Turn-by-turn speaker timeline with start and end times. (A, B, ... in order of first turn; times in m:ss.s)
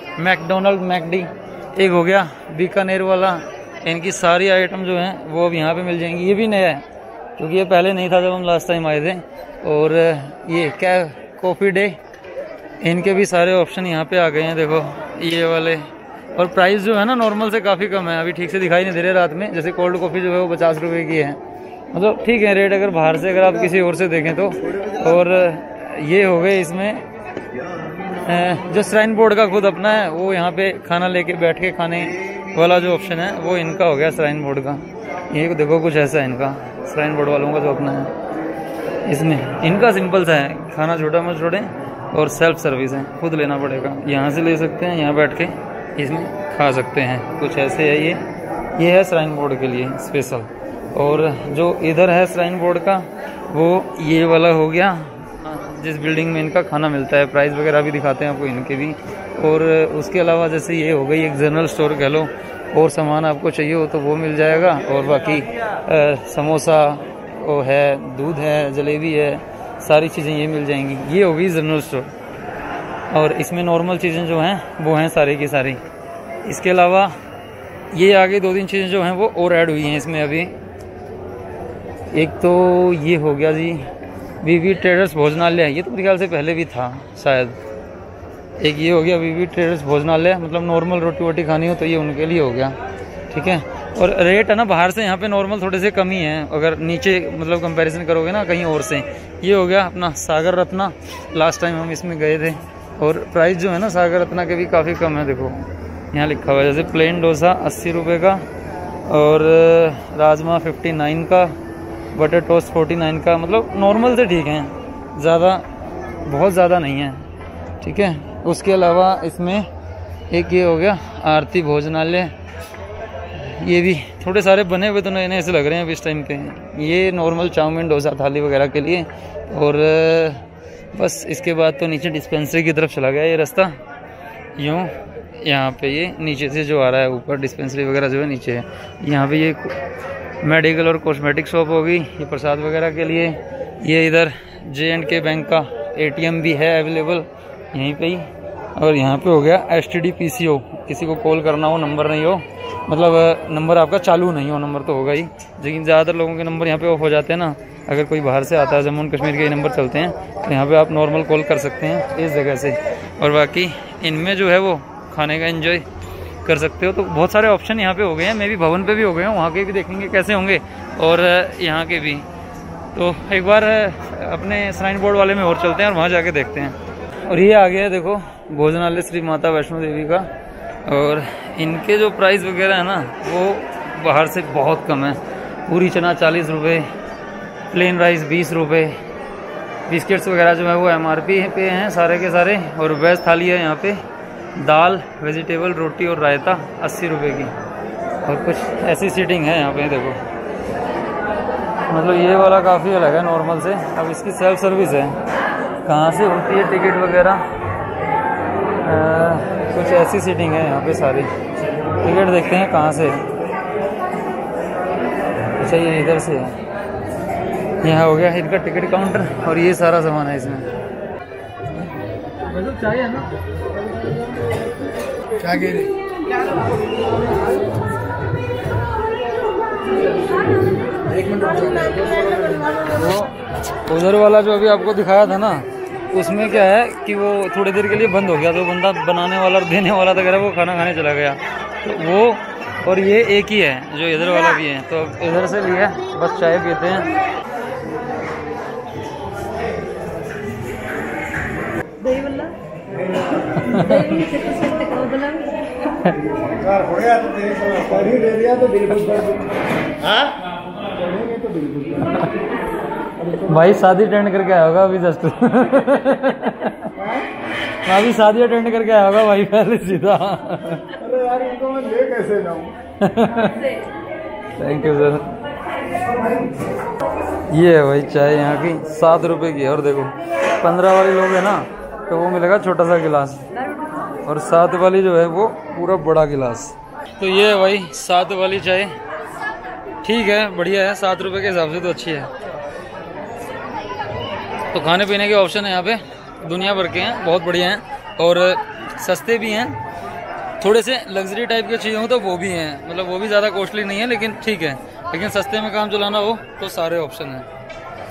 0:00.2-0:06.9 A
0:07.4-0:12.0 A
0:12.8-0:21.4 A
0:21.9-0:27.0 A
0:28.2-0:38.1 A
0:39.0-1:12.1 A
1:13.1-1:15.8 A
1:16.4-1:17.2 A
1:17.9-1:20.5 A
1:22.1-1:23.9 A
1:24.4-1:27.6 A
1:28.6-1:32.8 A
1:33.3-1:48.4 A
1:49.0-1:51.5 A
1:52.1-1:55.7 A
1:56.2-1:57.2 A
1:57.8-1:59.7 A
2:00.3-2:02.3 A
2:03.4-2:10.4 A
2:10.9-2:13.8 A
2:14.6-2:19.8 A
2:20.4-2:45.8 A
2:46.4-2:52.3 A
2:52.9-3:00.3 A
3:00.8-3:06.9 A
3:07.7-3:09.0 A
3:09.9-3:14.0 A
3:14.5-3:17.5 A
3:18.2-3:20.2 A
3:21.9-3:25.2 A
3:25.8-3:27.4 A
3:28.8-3:31.3 A
3:32.0-3:33.3 A
3:35.6-3:36.6 A
3:37.8-3:40.7 A
3:42.7-3:43.2 A
3:45.4-3:45.9 B
3:51.1-3:52.2 B
3:52.8-3:53.3 A
3:53.8-4:07.1 A
4:12.0-4:12.6 B
4:13.5-4:14.3 A
4:13.8-4:15.6 B
4:15.8-4:16.2 A
4:16.6-4:19.4 B
4:19.0-4:19.2 A
4:20.9-4:22.0 B
4:22.0-4:22.3 A
4:23.3-4:27.0 A
4:27.8-4:31.0 A
4:31.0-4:32.7 B
4:33.0-4:33.7 A
4:34.6-4:35.4 A
4:37.5-4:43.5 A
4:44.2-4:49.0 A
4:50.0-4:52.3 A
4:54.7-4:59.8 A
5:00.6-5:07.5 A